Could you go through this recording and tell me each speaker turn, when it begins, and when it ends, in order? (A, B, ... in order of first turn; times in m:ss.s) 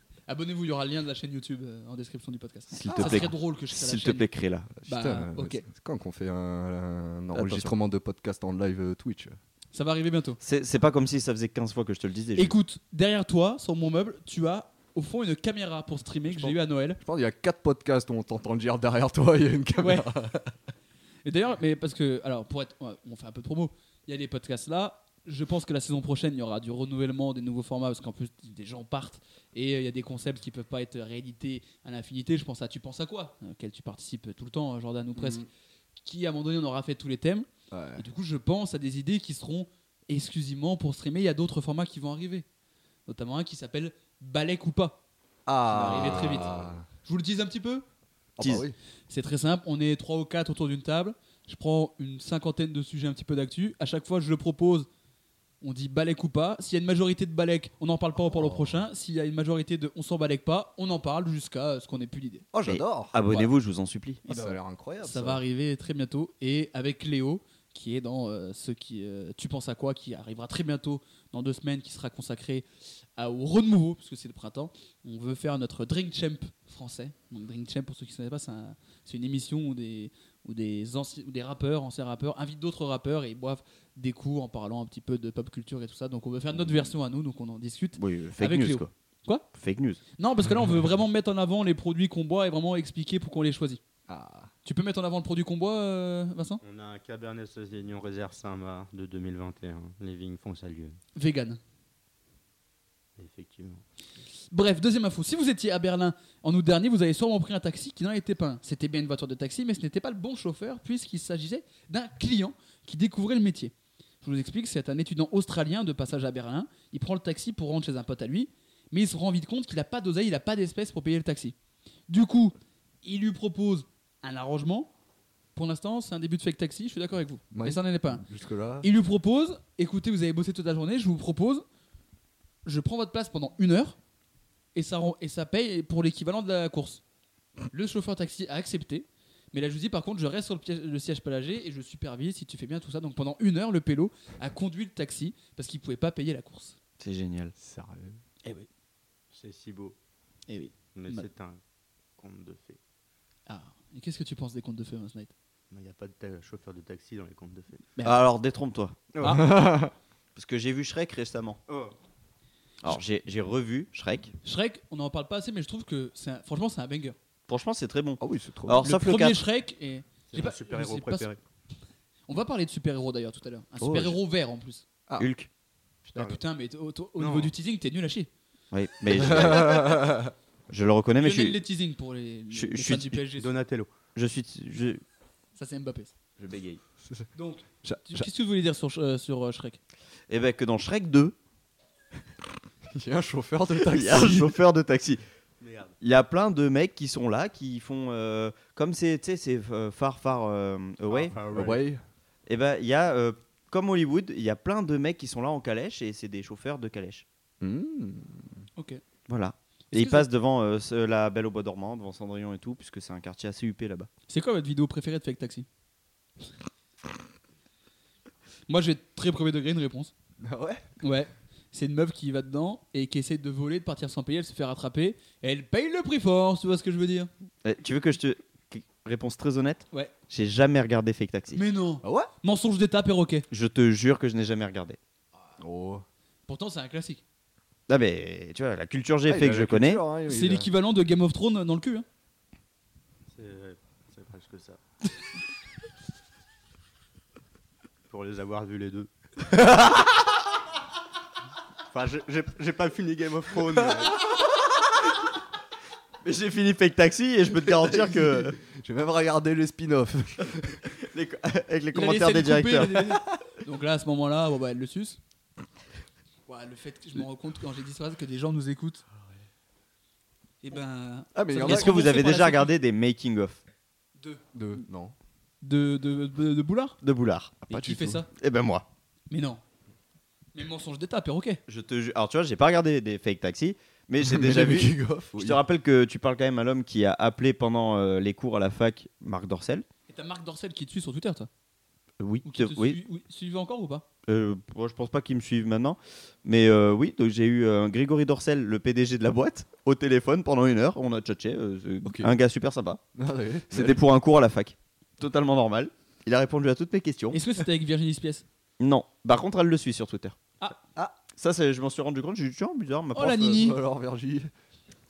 0:00.3-0:04.3 A
0:02.7-0:04.7 B
0:02.9-0:03.3 C
0:04.8-0:09.4 C
0:04.8-0:05.6 A
0:07.3-0:07.7 B
0:09.7-0:10.4 A
0:10.4-0:12.5 B
0:12.4-0:17.0 A
0:16.3-0:20.6 C
0:19.8-0:20.1 A
0:21.2-0:35.4 A
0:35.1-0:35.5 C
0:36.0-0:42.4 A
0:37.7-0:38.0 C
0:43.1-0:45.0 A
0:45.4-0:46.8 C
0:45.7-0:47.8 A
0:48.4-0:48.8 C
0:48.4-0:48.6 B
0:49.1-0:54.9 A
0:55.6-1:02.5 A
0:58.2-0:58.8 C
1:02.5-1:03.1 C
1:02.6-1:04.2 B
1:04.2-1:05.4 C
1:04.3-1:29.4 A
1:28.0-1:28.9 B
1:29.5-1:30.0 B
1:30.2-1:33.8 A
1:34.1-1:34.5 C
1:34.6-1:36.6 A
1:36.6-1:41.0 D
1:41.1-1:41.6 A
1:43.2-1:43.8 D
1:44.5-2:01.5 A
2:02.1-2:04.9 A
2:05.5-2:08.2 A
2:07.5-2:08.9 C
2:08.8-2:11.6 A
2:12.6-2:14.0 A
2:14.7-2:17.0 A
2:17.7-2:26.8 A
2:27.0-2:27.5 B
2:27.6-2:28.2 C
2:29.3-2:30.0 D
2:30.5-2:31.3 A
2:30.9-2:31.6 D
2:32.2-2:32.8 D
2:33.5-2:35.3 A
2:35.7-2:37.8 D
2:38.0-2:38.2 A
2:38.0-2:39.0 B
2:39.1-2:39.5 D
2:39.2-2:39.4 A
2:39.3-2:39.9 C
2:40.4-2:41.6 B
2:41.7-2:41.9 D
2:42.8-2:44.3 B
2:44.4-2:47.2 A
2:47.5-2:49.4 B
2:48.2-2:48.8 C
2:48.8-2:51.3 A
2:50.3-2:51.4 D
2:52.3-2:54.8 A
2:53.8-2:54.2 B
2:55.2-2:55.5 B
2:56.0-2:56.4 D
2:56.1-2:58.3 A
2:57.2-2:57.5 D
2:58.7-3:00.0 B
2:59.1-3:00.3 C
3:00.7-3:01.6 B
3:01.2-3:03.5 A
3:02.5-3:03.2 B
3:03.4-3:03.9 D
3:04.1-3:05.0 B
3:05.6-3:06.1 A
3:06.4-3:06.8 B
3:07.3-3:09.8 A
3:07.8-3:08.3 C
3:10.3-3:11.3 B
3:12.9-3:14.5 C
3:13.8-3:15.2 B
3:15.6-3:16.0 D
3:16.0-3:21.3 B
3:21.1-3:21.8 D
3:21.5-3:22.0 C
3:22.5-3:27.2 B
3:27.6-3:28.6 C
3:28.8-3:29.0 A
3:29.3-3:34.1 B
3:29.9-3:30.3 A
3:34.3-3:35.6 A
3:38.7-3:40.1 A
3:40.4-3:40.8 C
3:41.0-3:47.3 A
3:47.6-3:51.6 B
3:51.5-3:53.4 A
3:52.0-3:52.3 C
3:53.5-3:55.0 B
3:55.6-3:56.0 C
3:56.5-3:57.2 A
3:57.9-4:00.0 B
3:59.2-4:00.7 C
4:00.3-4:02.0 A
4:03.3-4:04.8 D
4:08.1-4:09.1 D
4:11.9-4:14.2 D
4:16.2-4:18.6 B
4:17.8-4:20.8 C
4:20.9-4:23.2 B
4:21.9-4:25.2 A
4:26.5-4:29.0 A
4:30.6-4:32.7 A
4:31.3-4:32.0 C
4:31.6-4:33.6 B
4:34.5-4:35.1 C
4:35.6-4:37.0 A
4:37.0-4:38.8 B
4:37.7-4:38.3 A
4:37.9-4:38.2 C
4:39.3-4:39.6 A
4:40.5-4:41.6 A
4:41.7-4:49.8 B
4:44.2-4:45.6 C
4:50.1-4:51.5 A
4:52.2-4:53.0 B
4:52.4-4:54.1 A
4:54.3-5:03.0 B
5:02.0-5:02.3 C
5:03.2-5:04.0 C
5:03.7-5:07.4 B
5:07.3-5:08.4 A
5:08.8-5:10.4 B
5:11.3-5:13.6 B
5:13.1-5:13.8 A
5:13.4-5:14.5 C